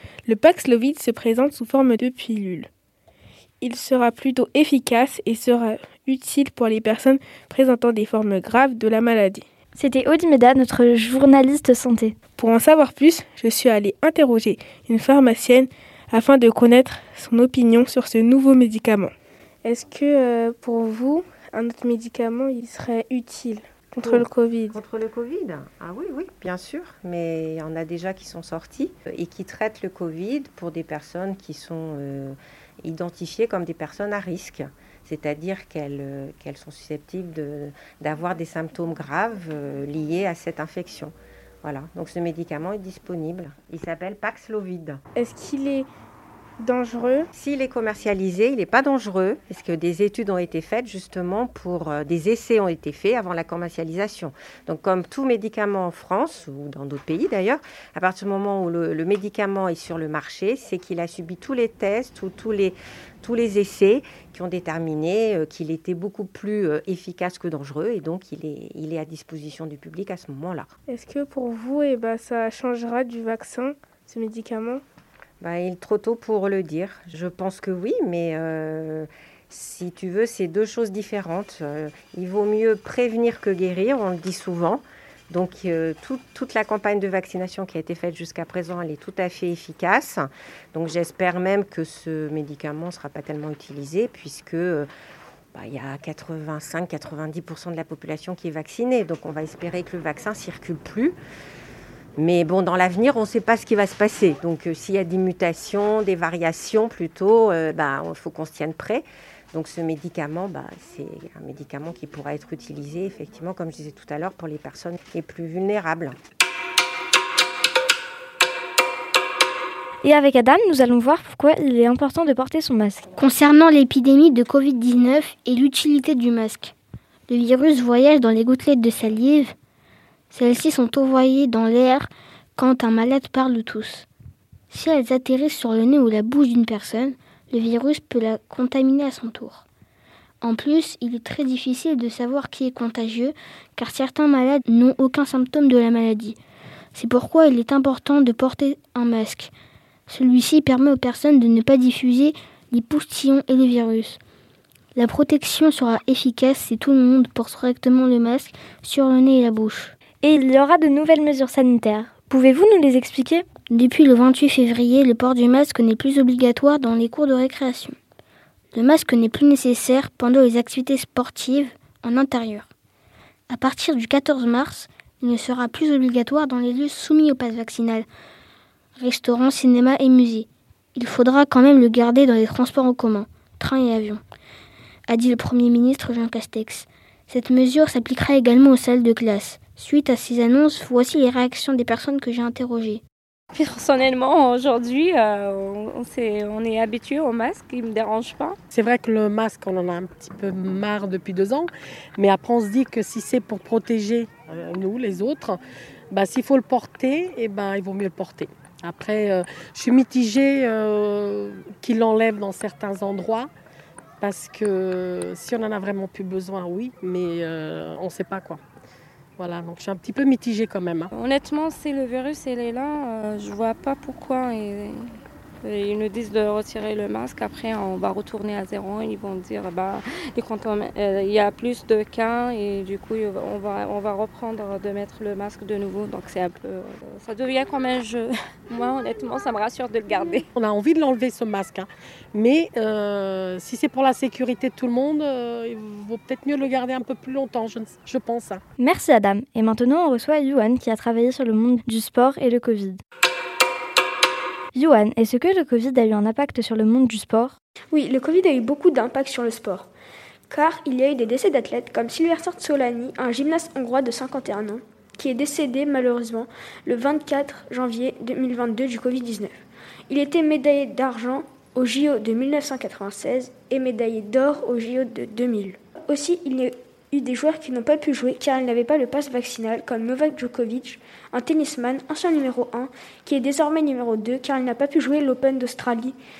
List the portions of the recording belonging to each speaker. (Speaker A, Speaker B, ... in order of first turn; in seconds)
Speaker A: 0.3-2.7, 3.6-9.4, 12.4-19.1, 19.6-24.8, 45.1-45.9, 46.6-47.3, 70.9-74.8
Speaker B: 9.8-12.2, 120.0-123.0, 160.2-163.4, 248.8-253.0, 254.7-257.6
Speaker C: 24.0-45.0, 47.3-70.7, 75.4-94.9, 95.5-101.2, 102.2-116.2
Speaker D: 123.2-126.7, 127.3-129.5, 130.3-134.1, 134.7-139.6, 140.4-146.3, 146.9-149.5, 150.1-154.2, 154.9-159.9, 163.7-167.9, 168.7-172.7, 173.5-178.1, 179.0-184.2, 185.1-193.0
Speaker E: 193.5-198.6, 221.1-240.5
Speaker F: 198.7-205.6, 206.1-213.5, 214.2-218.6, 219.4-221.1, 240.6-248.6
Speaker G: 257.9-259.9, 260.5-269.5, 270.1-286.2